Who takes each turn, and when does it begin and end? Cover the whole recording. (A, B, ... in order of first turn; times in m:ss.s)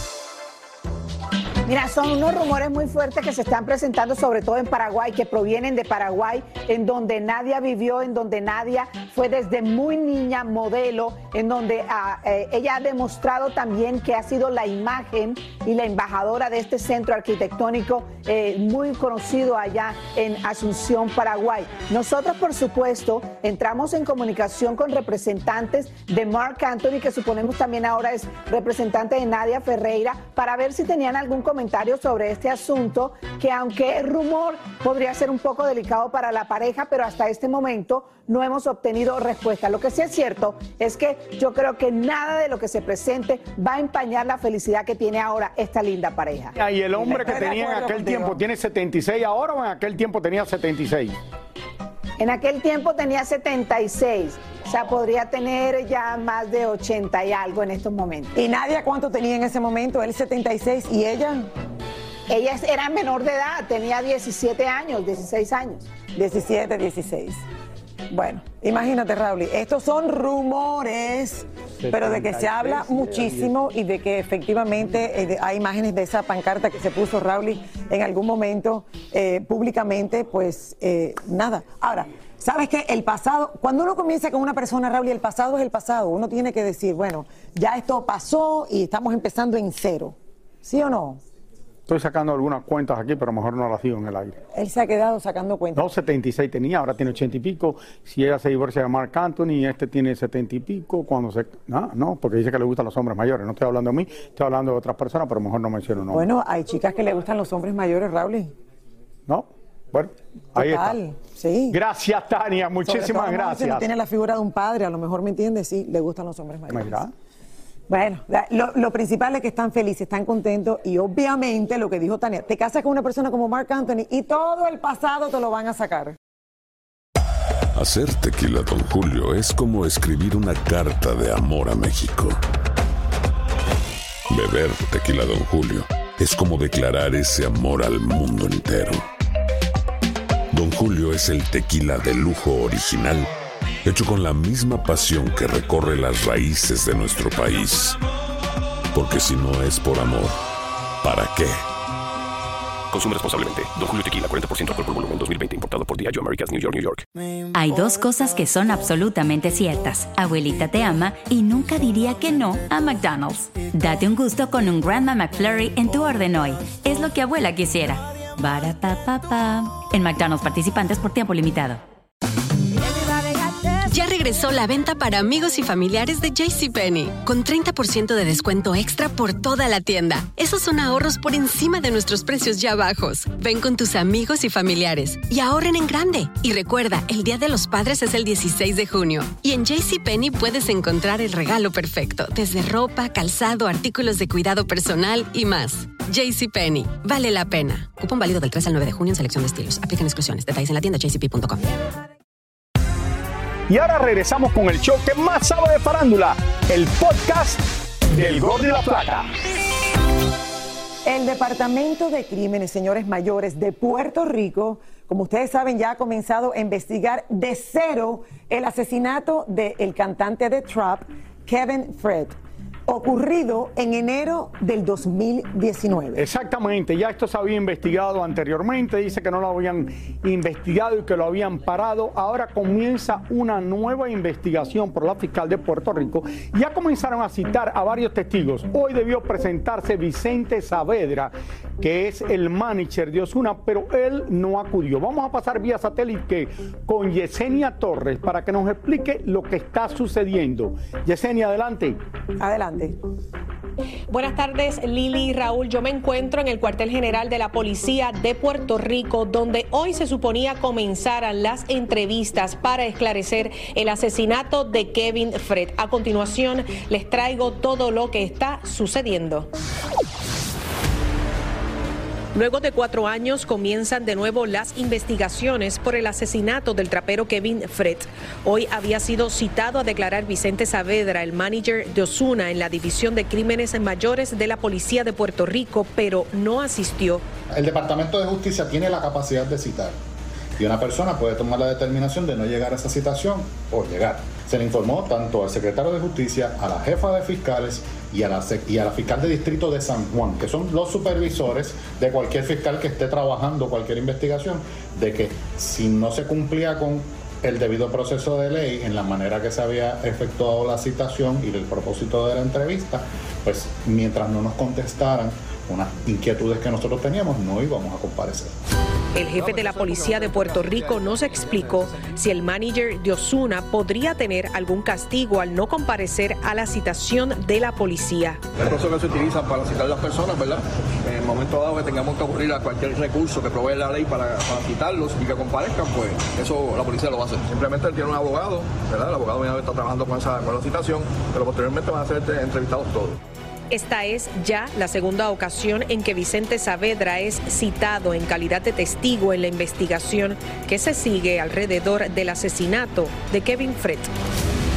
0:01.7-0:46.6 A
0:46.6-0:51.2 B
0:47.0-0:48.4 C
0:52.2-0:58.4 A
0:58.3-1:01.5 C
1:02.3-1:05.8 A
1:06.2-1:07.4 C
1:08.1-1:31.2 C
1:11.8-1:13.5 B
1:31.9-1:34.4 B
1:34.5-1:35.9 C
1:35.8-1:46.3 B
1:46.1-1:48.5 C
1:49.3-1:51.0 B
1:50.6-1:51.8 C
1:51.7-1:53.9 B
1:52.8-1:57.0 C
1:56.7-1:57.1 B
1:57.9-2:06.2 C
2:07.8-2:12.4 D
2:14.3-2:19.1 D
2:20.5-2:23.3 D
2:23.8-2:28.0 D
2:28.9-2:30.4 D
2:31.0-2:31.6 D
2:32.9-2:37.0 E
2:37.5-2:51.8 F
2:53.8-3:21.6 G
3:23.7-3:29.3 B
3:31.0-3:46.2 C
3:46.2-4:12.0 B
4:12.4-4:13.0 C
4:14.1-4:29.5 H
4:32.3-4:47.2 H
4:47.5-4:50.0 I
4:50.6-5:18.6 I
5:19.2-5:28.4 H
5:20.0-5:21.4 J
5:28.6-5:43.2 J
5:43.7-5:54.1 H